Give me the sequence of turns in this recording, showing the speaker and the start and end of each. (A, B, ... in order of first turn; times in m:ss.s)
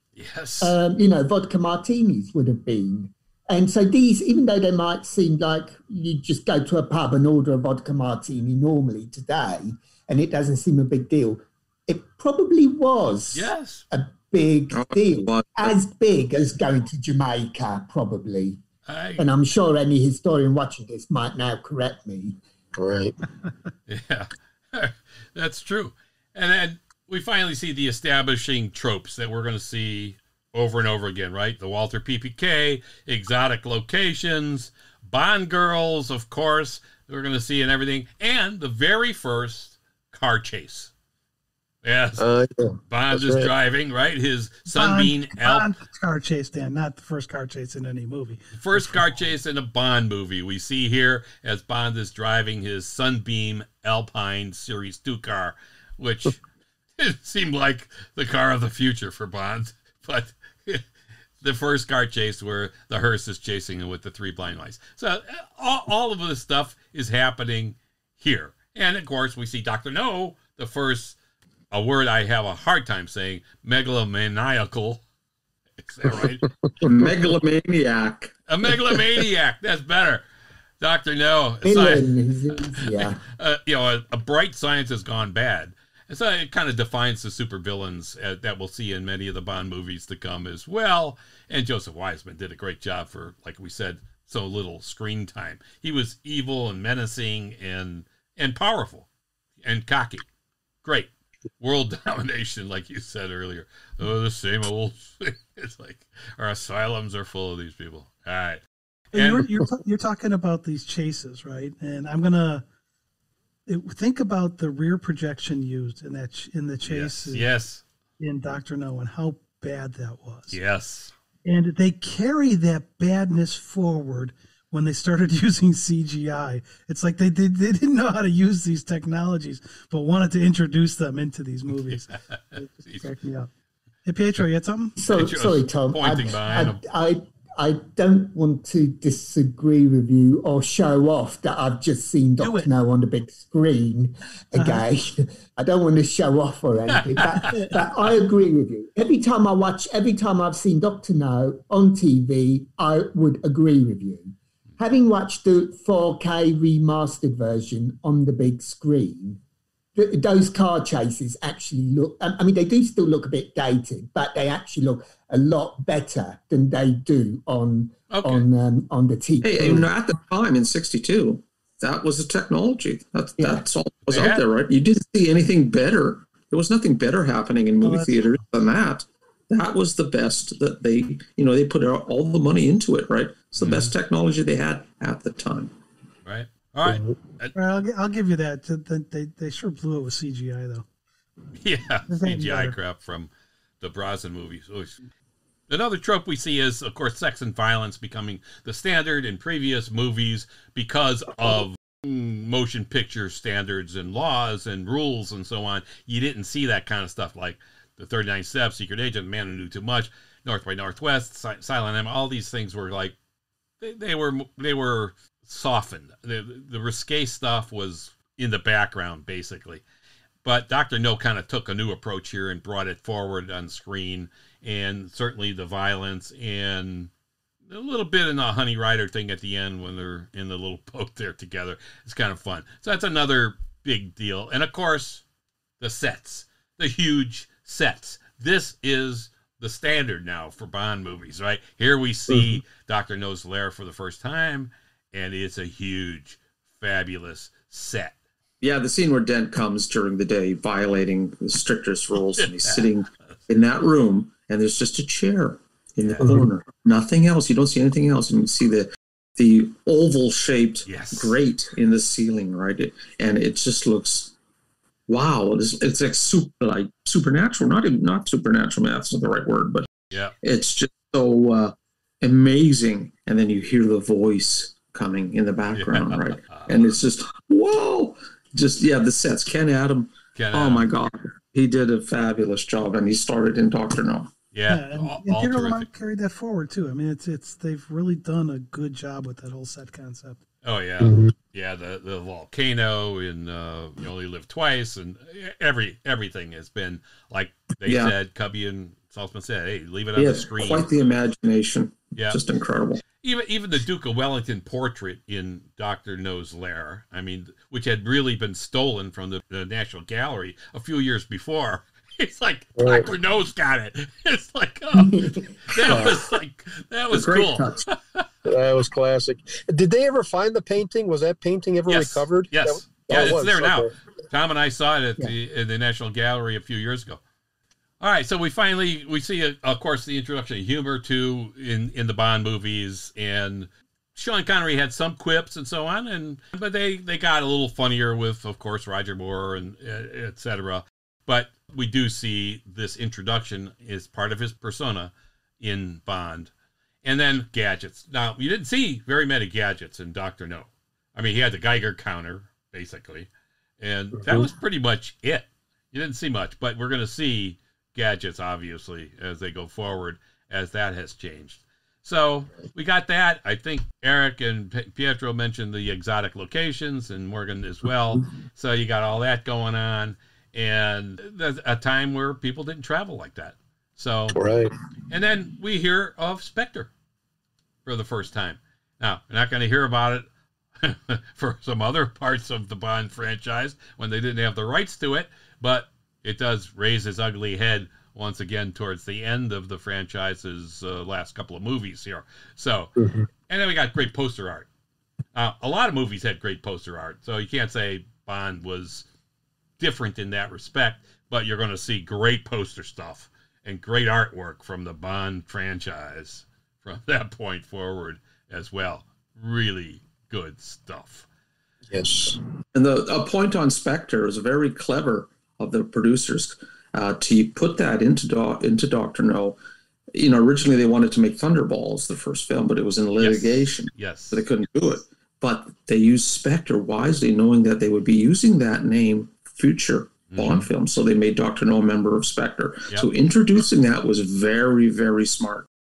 0:00.2-0:00.8 A
0:00.6-0:18.6 B
0:13.3-0:13.8 A
0:14.7-0:15.7 C
0:18.8-0:19.2 A
0:19.2-0:22.4 B
0:22.7-0:23.1 D
0:23.9-0:40.9 A
0:41.8-0:42.2 A
0:42.2-0:43.5 D
0:42.9-0:45.7 A
0:44.7-0:49.0 E
0:48.5-0:56.4 A
0:57.0-1:00.8 A
1:01.4-1:11.2 A
1:11.7-1:15.0 A
1:15.8-1:16.4 A
1:16.2-1:16.9 D
1:16.8-1:18.3 C
1:18.5-1:20.2 A
1:20.8-1:22.1 A
1:21.6-1:23.2 B
1:22.6-1:39.1 A
1:39.6-1:40.2 A
1:40.8-1:49.5 A
1:49.1-1:52.6 E
1:53.7-1:57.5 E
1:56.8-1:57.8 A
1:58.2-2:00.6 E
2:00.5-2:01.1 A
2:01.4-2:13.5 E
2:11.9-2:13.1 A
2:14.0-2:15.0 E
2:15.0-2:39.4 B
2:15.0-2:16.8 A
2:22.4-2:22.7 E
2:24.5-2:24.8 E
2:26.9-2:27.5 A
2:27.5-2:27.8 E
2:39.9-2:49.9 B
2:48.1-2:48.4 A
2:49.4-3:05.7 C
2:54.1-2:54.4 A
2:57.8-2:58.1 E
3:03.6-3:03.9 A
3:06.2-3:07.5 A
3:07.5-3:10.8 E
3:11.6-3:13.3 A
3:12.1-3:12.7 E
3:13.8-3:15.0 A
3:15.7-3:33.2 A
3:33.8-3:39.8 A
3:40.4-3:47.1 A
3:47.7-3:55.2 A
3:55.8-4:08.1 A
4:08.6-4:24.3 C
4:12.4-4:12.9 A
4:16.0-4:16.3 A
4:16.2-4:16.5 D
4:20.8-4:21.4 A
4:25.1-4:29.9 C
4:30.4-4:44.3 C
4:35.7-4:36.8 A
4:40.3-4:40.9 A
4:44.5-4:45.9 A
4:44.7-4:50.4 E
4:50.6-5:00.9 A
4:51.0-4:51.3 D
4:57.8-4:58.1 C
5:00.2-5:03.0 C
5:03.2-5:18.3 A
5:12.8-5:13.1 D
5:14.9-5:16.2 B
5:15.9-5:16.2 D
5:17.1-5:17.8 C
5:18.4-5:23.9 D
5:21.9-5:27.2 A
5:23.1-5:23.3 B
5:28.0-5:46.5 A
5:47.0-5:53.3 A
5:53.8-6:14.4 A
5:54.2-5:54.5 D
6:14.3-6:14.7 D
6:15.1-6:16.9 A
6:17.8-6:20.3 A
6:20.8-6:32.9 A
6:33.0-6:33.3 D
6:33.5-6:34.7 A
6:35.3-6:39.0 A
6:39.8-6:51.2 A
6:51.9-6:52.4 D
6:52.7-6:59.6 C
7:00.1-7:15.6 C
7:03.2-7:04.4 A
7:10.3-7:10.7 A